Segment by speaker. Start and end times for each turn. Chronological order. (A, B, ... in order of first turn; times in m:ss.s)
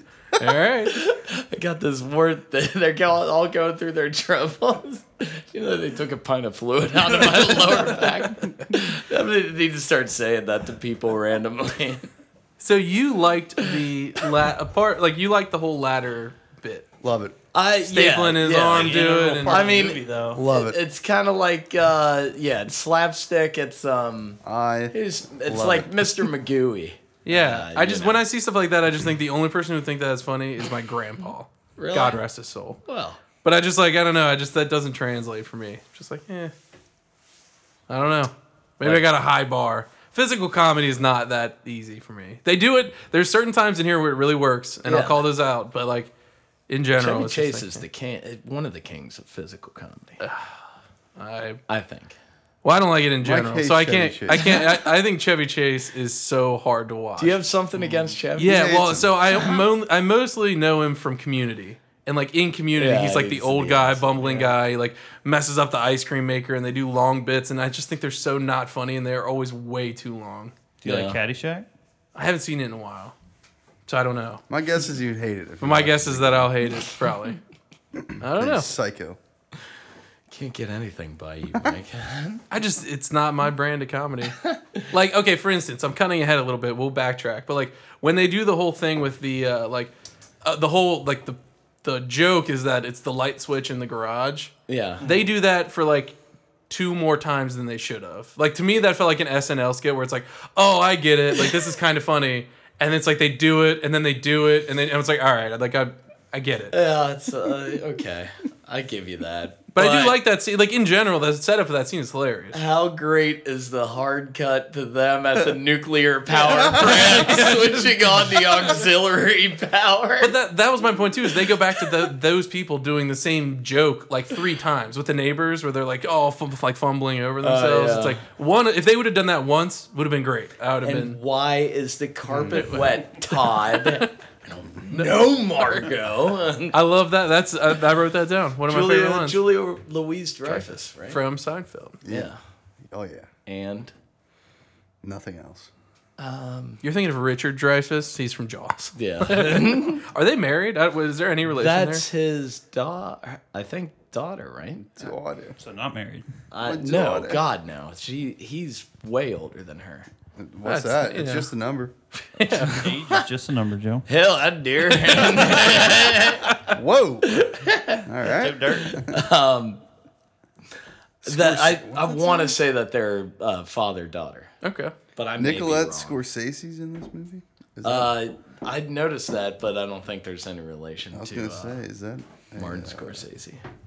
0:00.4-0:01.0 A
0:00.9-0:12.1 B
0:12.6-0:16.8 A
0:17.0-0:17.3 C
0:17.5-0:24.4 B
0:17.8-0:19.8 A
0:18.7-0:20.4 D
0:20.3-0:20.8 C
0:24.4-0:25.9 C
0:24.9-0:28.2 B
0:27.2-0:32.8 A
0:31.8-0:32.2 B
0:32.8-0:33.2 B
0:33.4-0:36.5 A
0:37.9-0:46.1 A
0:38.8-0:39.0 B
0:44.8-0:45.2 B
0:46.7-0:47.8 A
0:47.0-0:50.2 B
0:50.2-0:51.6 A
0:51.7-0:52.2 B
0:52.6-0:57.4 A
0:53.2-0:54.6 C
0:54.3-0:54.6 B
0:57.2-0:58.7 B
0:58.4-1:10.5 A
0:58.4-0:59.1 C
1:02.8-1:04.6 B
1:10.8-1:11.6 D
1:10.8-1:11.2 B
1:12.2-1:13.1 A
1:13.9-1:14.4 A
1:14.5-1:16.5 C
1:15.6-1:17.4 A
1:18.0-1:19.2 C
1:18.2-1:18.7 A
1:20.3-1:22.4 B
1:22.5-1:29.9 A
1:24.4-1:24.8 B
1:30.4-1:36.1 A
1:34.7-1:35.0 B
1:35.0-1:35.3 D
1:36.7-1:46.7 A
1:46.7-1:50.2 B
1:49.7-1:52.6 A
1:52.5-2:00.3 B
1:56.5-1:56.8 C
1:56.5-1:58.5 A
2:00.2-2:11.2 A
2:07.4-2:08.2 B
2:10.8-2:16.8 B
2:12.4-2:14.1 A
2:14.9-2:15.8 A
2:16.7-2:19.4 A
2:18.7-2:21.2 B
2:20.4-2:22.0 A
2:22.0-2:22.3 C
2:22.1-2:22.4 B
2:22.9-2:23.3 C
2:23.4-2:23.9 B
2:25.0-2:25.7 C
2:26.2-2:26.8 B
2:26.8-2:32.0 A
2:29.0-2:30.0 B
2:31.5-2:35.0 B
2:34.9-2:35.6 C
2:35.6-2:36.3 D
2:36.5-2:40.1 B
2:36.6-2:37.4 C
2:40.4-2:41.9 C
2:40.6-2:41.5 A
2:42.3-2:42.9 A
2:42.5-2:42.8 B
2:42.7-2:44.1 D
2:44.1-2:46.5 B
2:46.7-2:47.3 C
2:47.2-2:48.0 B
2:48.0-2:49.1 C
2:48.2-2:49.0 D
2:49.0-2:49.8 B
2:51.2-2:52.5 C
2:51.2-2:54.5 B
2:54.6-2:54.9 A
2:55.2-2:56.2 B
2:55.4-2:58.1 C
2:57.8-3:01.8 B
3:01.1-3:03.2 C
3:02.6-3:03.6 B